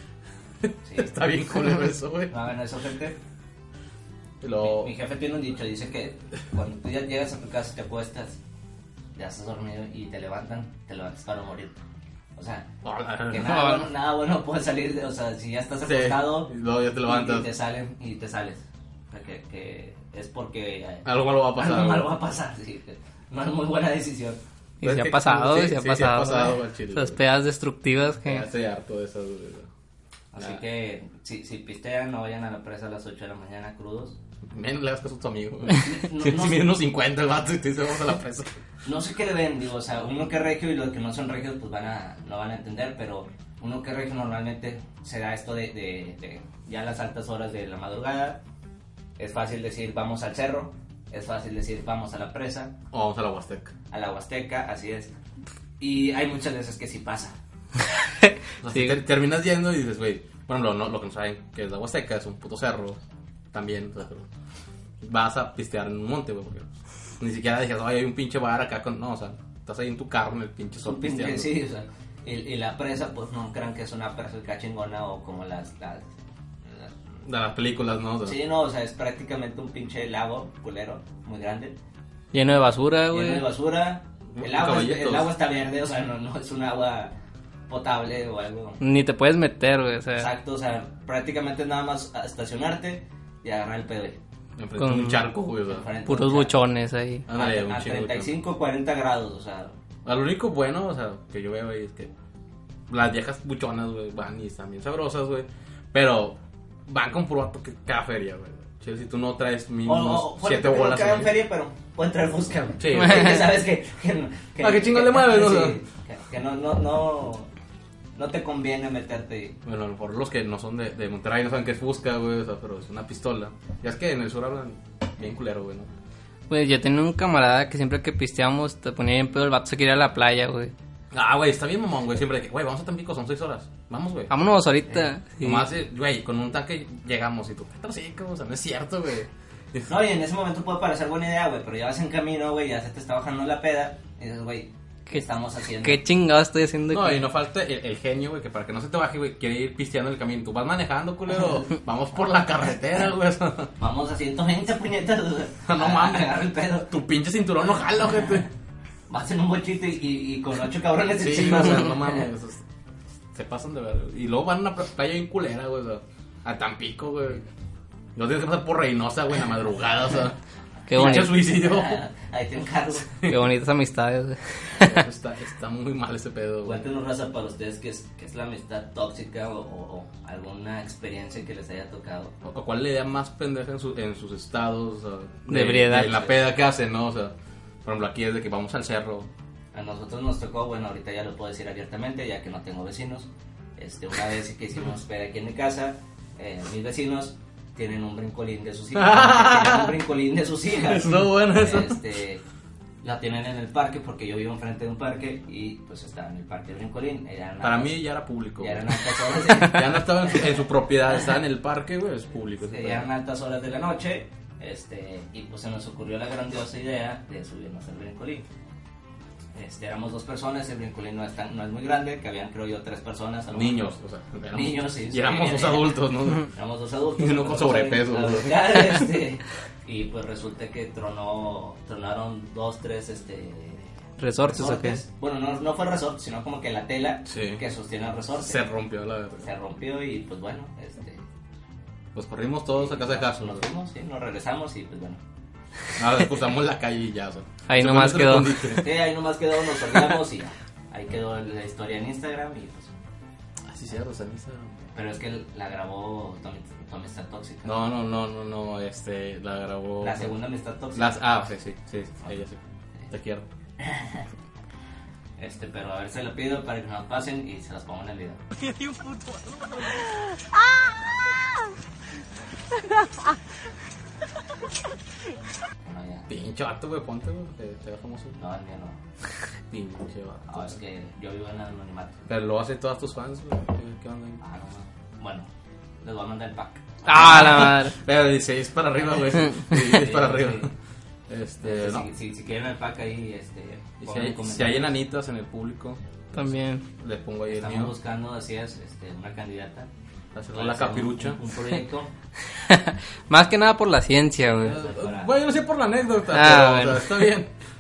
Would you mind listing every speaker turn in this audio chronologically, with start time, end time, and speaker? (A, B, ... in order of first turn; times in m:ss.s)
0:00.6-0:02.4 A
0:00.8-0:01.2 B
0:02.3-0:03.2 B
0:04.4-0:04.9 A
0:04.6-0:08.4 B
0:09.2-0:11.8 B
0:12.4-0:12.7 B
0:12.8-0:13.7 A
0:13.3-0:16.5 B
0:15.8-0:17.5 A
0:17.0-0:24.4 B
0:21.0-0:22.2 A
0:24.8-0:28.4 C
0:24.8-0:27.2 A
0:28.2-0:29.7 A
0:30.3-0:34.2 B
0:34.5-0:38.5 A
0:35.8-0:36.7 B
0:38.8-0:48.4 B
0:49.2-0:52.8 B
0:52.9-0:53.7 A
0:53.9-0:55.2 B
0:55.8-0:57.4 B
0:58.2-0:59.0 C
0:58.6-1:03.0 A
1:03.5-1:04.3 A
1:05.0-1:11.6 A
1:10.8-1:16.1 B
1:16.7-1:16.9 B
1:17.3-1:18.4 A
1:18.2-1:21.8 B
1:22.3-1:23.4 C
1:23.1-1:27.1 B
1:24.3-1:25.3 A
1:27.7-1:28.8 B
1:28.8-1:30.3 C
1:30.2-1:34.2 B
1:34.6-1:35.9 A
1:34.8-1:35.2 C
1:35.7-1:36.6 B
1:36.1-1:37.3 C
1:37.3-1:38.4 A
1:37.3-1:39.8 B
1:40.0-1:42.1 A
1:42.9-1:51.3 A
1:49.8-1:57.5 B
1:52.8-1:53.4 A
1:53.0-1:53.5 C
1:54.6-1:55.8 A
1:58.2-1:59.6 B
1:59.6-2:05.9 A
2:06.5-2:10.7 C
2:11.1-2:14.3 A
2:14.3-2:15.7 C
2:15.4-2:19.9 A
2:19.9-2:26.0 B
2:25.8-2:27.2 C
2:26.9-2:33.7 A
2:33.8-2:36.9 B
2:35.6-2:38.5 A
2:39.1-2:42.3 B
2:41.2-2:42.6 A
2:43.3-2:47.4 A
2:48.2-2:50.4 A
2:50.9-2:51.4 C
2:50.9-2:52.0 A
2:51.0-2:53.3 B
2:53.2-2:55.1 C
2:54.7-2:56.9 A
2:56.6-3:02.3 B
3:02.4-3:09.3 A
3:05.5-3:06.2 C
3:09.7-3:22.4 B
3:19.0-3:20.0 A
3:20.8-3:22.0 A
3:23.0-3:28.0 B
3:27.6-3:33.1 A
3:28.6-3:30.6 B
3:32.7-3:38.5 B
3:39.6-3:43.8 B
3:43.5-3:46.5 A
3:44.5-3:53.9 B
3:47.2-3:49.0 A
3:54.2-3:55.0 C
3:54.4-3:58.6 B
3:57.3-3:57.6 A
3:58.4-3:59.5 A
3:59.4-4:01.2 B
4:02.2-4:03.7 A
4:02.8-4:05.2 B
4:06.0-4:08.9 A
4:07.7-4:08.8 C
4:08.7-4:12.9 B
4:13.7-4:14.7 A
4:14.9-4:17.8 B
4:17.6-4:20.4 A
4:20.0-4:21.2 B
4:20.9-4:23.5 A
4:23.8-4:24.2 B
4:25.4-4:28.4 B
4:35.8-4:36.3 B
4:36.3-4:38.4 A
4:38.4-4:39.0 B
4:39.7-4:40.8 A
4:40.5-4:42.2 B
4:42.3-4:44.4 A
4:44.4-4:45.5 B
4:46.0-4:47.7 B
4:47.0-4:48.0 C
4:47.1-4:50.7 A
4:49.7-4:50.7 B
4:51.3-4:52.1 A
4:51.6-4:54.9 B
4:54.0-4:58.0 A
4:56.3-4:56.8 C
4:57.5-4:59.9 B
5:00.4-5:01.4 A
5:00.5-5:02.1 B
5:02.5-5:04.8 C
5:04.6-5:07.5 A
5:04.7-5:05.4 B
5:06.3-5:07.3 C